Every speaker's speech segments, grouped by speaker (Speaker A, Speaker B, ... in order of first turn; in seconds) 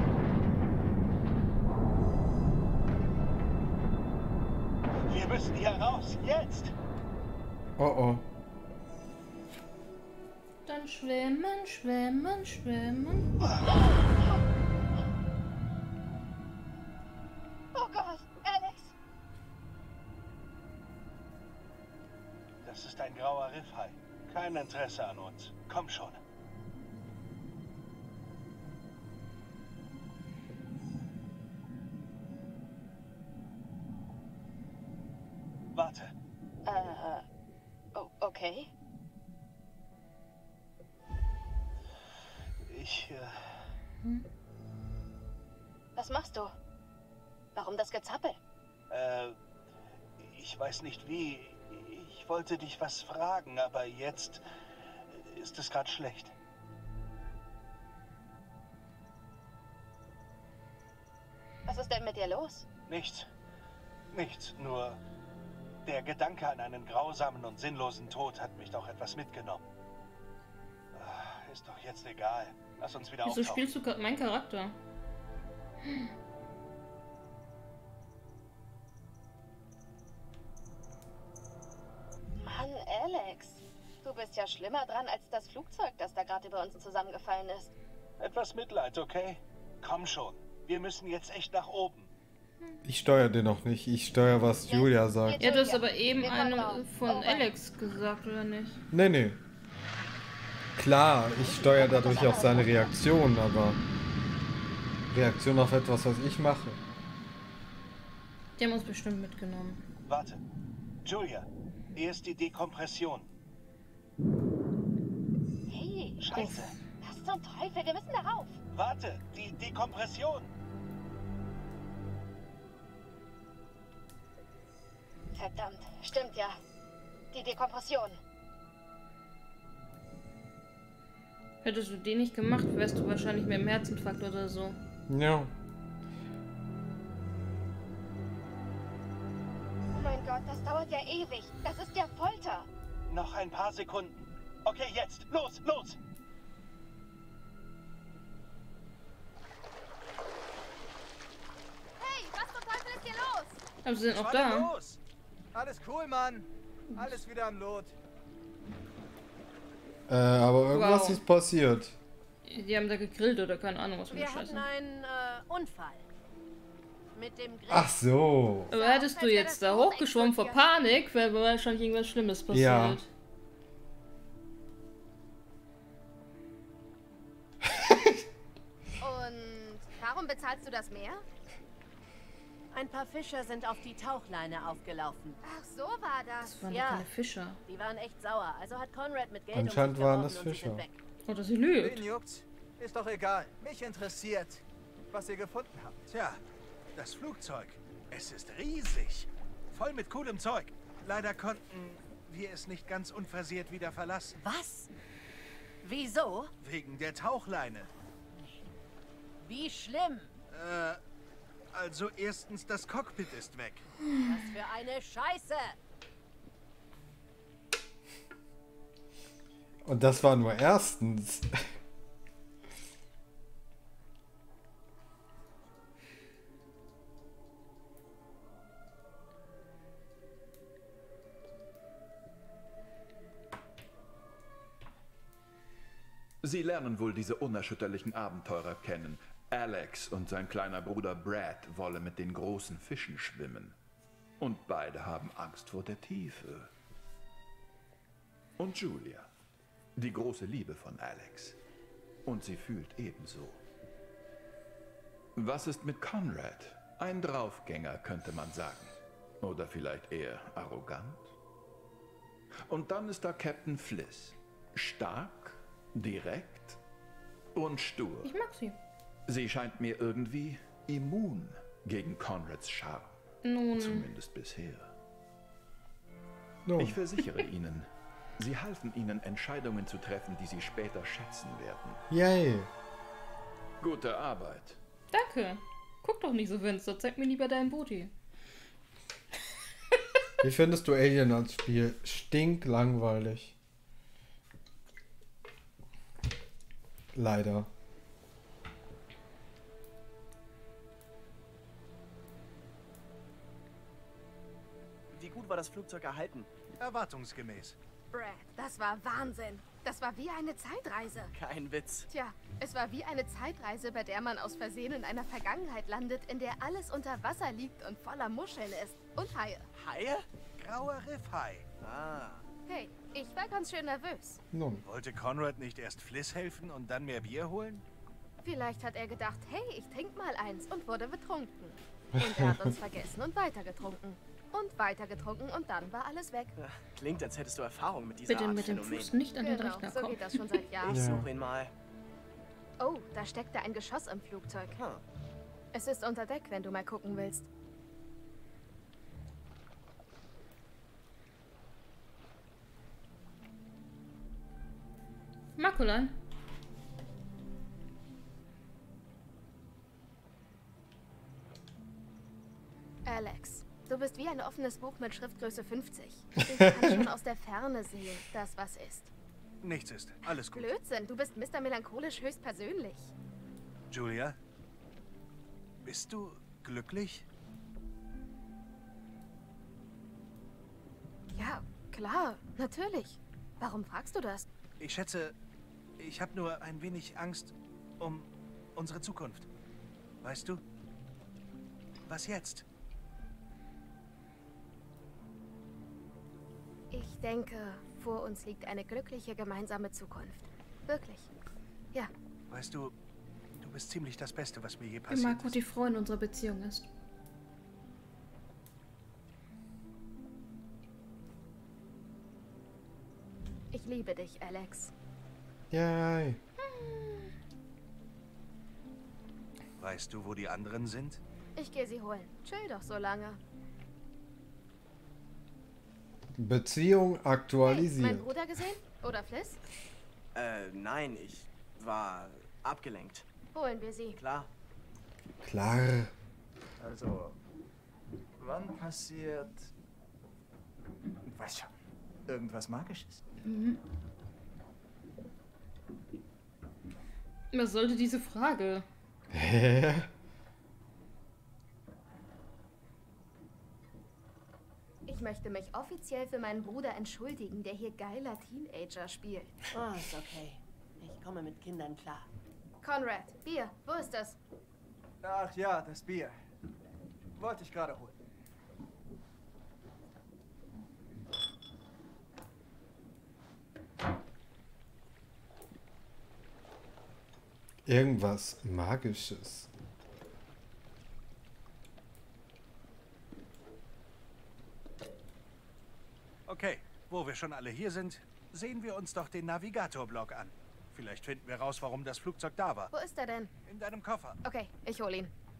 Speaker A: 5.1-6.7, 22.6-26.2, 35.7-36.1, 42.6-43.6, 48.9-49.4, 50.2-54.4, 55.1-56.3, 62.9-63.3, 64.1-65.0, 65.8-69.6, 70.9-73.6, 88.2-92.1, 110.1-110.4, 111.0-113.3, 116.2-116.8, 118.7-120.5, 143.1-146.0, 154.1-155.0, 196.1-196.4, 196.9-204.4, 206.6-207.9, 210.5-211.0, 211.7-213.8, 306.8-307.8, 320.6-321.6, 324.8-327.8, 369.6-370.7, 373.9-374.4, 375.8-377.2, 384.8-385.3, 386.0-389.5, 390.2-390.6, 392.1-392.6, 402.5-402.9, 403.5-405.6, 419.8-421.2, 486.5-492.9, 493.6-494.4
Speaker B: 7.8-8.2, 92.8-95.4, 98.9-99.4, 100.8-103.8, 105.1-106.8, 135.1-135.5, 160.1-161.9, 167.7-168.7, 172.5-173.0, 189.5-190.8, 219.8-221.6, 276.6-277.0, 282.1-282.7, 290.4-293.5, 297.1-297.7, 324.5-324.8, 332.2-332.7, 340.9-341.2, 366.5-367.0, 415.7-416.4, 426.3-428.3, 435.4-436.1, 449.3-450.1, 477.9-479.7
Speaker C: 10.7-13.3, 73.2-74.8, 95.4-98.8, 108.6-109.8, 131.6-134.8, 153.8-154.7, 160.7-161.2, 162.4-164.6, 168.7-173.1, 186.4-187.6, 191.3-192.0, 268.2-268.8, 273.4-274.1, 285.1-288.1, 338.3-340.6, 355.6-356.1, 405.1-406.9, 416.6-417.3, 443.4-443.8, 447.5-448.9
Speaker D: 13.6-14.4, 17.7-18.9, 36.6-37.2, 37.9-38.7, 46.0-46.5, 47.5-48.4, 61.6-62.7, 82.4-87.7, 94.7-97.5, 101.4-102.9, 115.7-118.6, 125.3-126.6, 127.3-128.2, 139.9-142.7
Speaker E: 152.0-153.6, 168.7-170.6, 179.0-181.2, 185.4-186.6, 308.1-311.3, 312.1-319.7, 322.7-324.4, 328.4-336.6, 339.4-341.0, 342.8-344.8, 345.7-347.5, 363.0-369.1, 370.5-373.1, 381.3-384.4, 396.9-401.3, 413.7-414.9, 421.6-423.4, 427.6-429.6, 433.5-434.2, 455.1-459.6, 462.8-464.4, 492.9-493.5, 494.4-495.3
Speaker F: 155.5-157.9, 191.8-196.1, 436.8-437.4, 438.4-439.7, 441.2-441.7, 442.3-443.2, 465.2-466.3, 467.4-468.1
Speaker G: 164.1-166.1, 167.1-167.9, 182.7-185.4, 186.7-187.1, 187.7-191.0, 204.4-204.9, 205.8-206.5, 209.4-210.4, 214.2-215.8, 459.7-462.3
Speaker H: 236.4-243.8, 244.4-246.7, 248.6-249.3, 249.9-251.6, 252.2-253.6, 255.3-261.3, 262.6-266.8, 267.5-268.3, 269.3-273.2, 273.7-274.9, 276.8-282.0, 283.8-284.8
Speaker I: 305.1-306.5, 311.3-312.1, 319.7-320.2, 321.8-322.4, 336.6-339.1, 340.8-341.7, 344.7-345.0, 430.3-433.2, 434.2-434.5